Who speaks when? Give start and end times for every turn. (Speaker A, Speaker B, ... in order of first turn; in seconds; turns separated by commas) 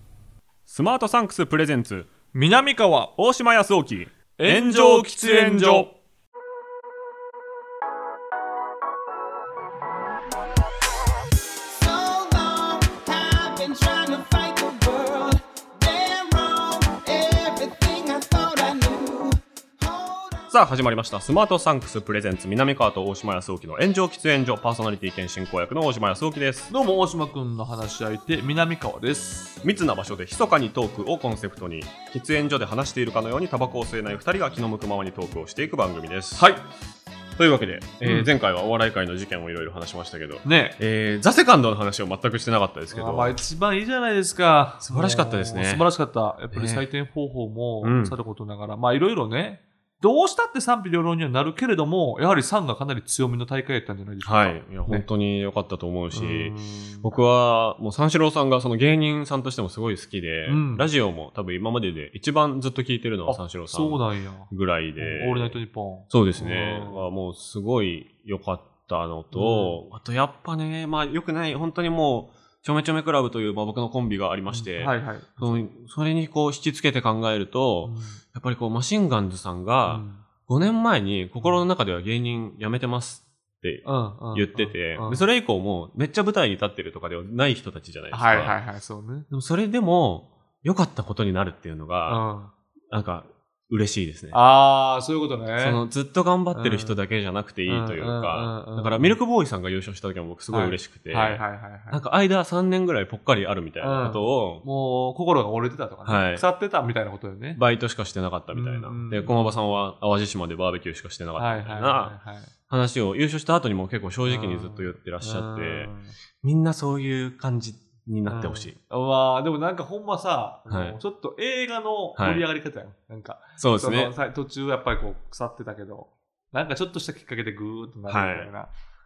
Speaker A: 0.7-2.1, Speaker B: 2.3-3.1, Speaker A: 3.2-5.9, Speaker B: 4.4-5.9, Speaker C: 11.7-20.5, Speaker A: 20.5-26.7, Speaker B: 26.7-29.6, Speaker A: 29.6-36.5, Speaker B: 36.4-36.6, Speaker A: 37.4-43.3, Speaker B: 38.0-38.3, Speaker B: 40.4-40.8, Speaker B: 42.9-55.1, Speaker A: 44.9-45.8, Speaker A: 46.5-46.9, Speaker A: 47.8-48.1, Speaker A: 54.2-65.6, Speaker B: 56.1-57.2, Speaker B: 60.5-60.9, Speaker B: 63.2-67.1, Speaker A: 66.1-88.5, Speaker B: 69.3-69.8, Speaker B: 74.5-75.7, Speaker B: 77.8-78.2, Speaker B: 79.8-80.2, Speaker B: 81.4-81.6, Speaker B: 83.8-85.3, Speaker B: 88.1-89.3, Speaker A: 89.3-92.2, Speaker B: 92.0-92.5, Speaker A: 92.9-94.4, Speaker B: 94.3-95.8, Speaker A: 95.6-104.6, Speaker B: 96.5-97.0, Speaker B: 97.7-99.2, Speaker B: 100.5-102.0, Speaker B: 103.8-107.6, Speaker A: 106.0-106.4, Speaker A: 107.5-112.2, Speaker B: 108.5-109.5, Speaker B: 111.4-112.5, Speaker A: 112.7-118.8, Speaker B: 114.2-116.1, Speaker B: 118.2-128.7, Speaker A: 120.7-121.0, Speaker A: 122.2-122.4, Speaker A: 123.6-124.1, Speaker A: 128.1-128.5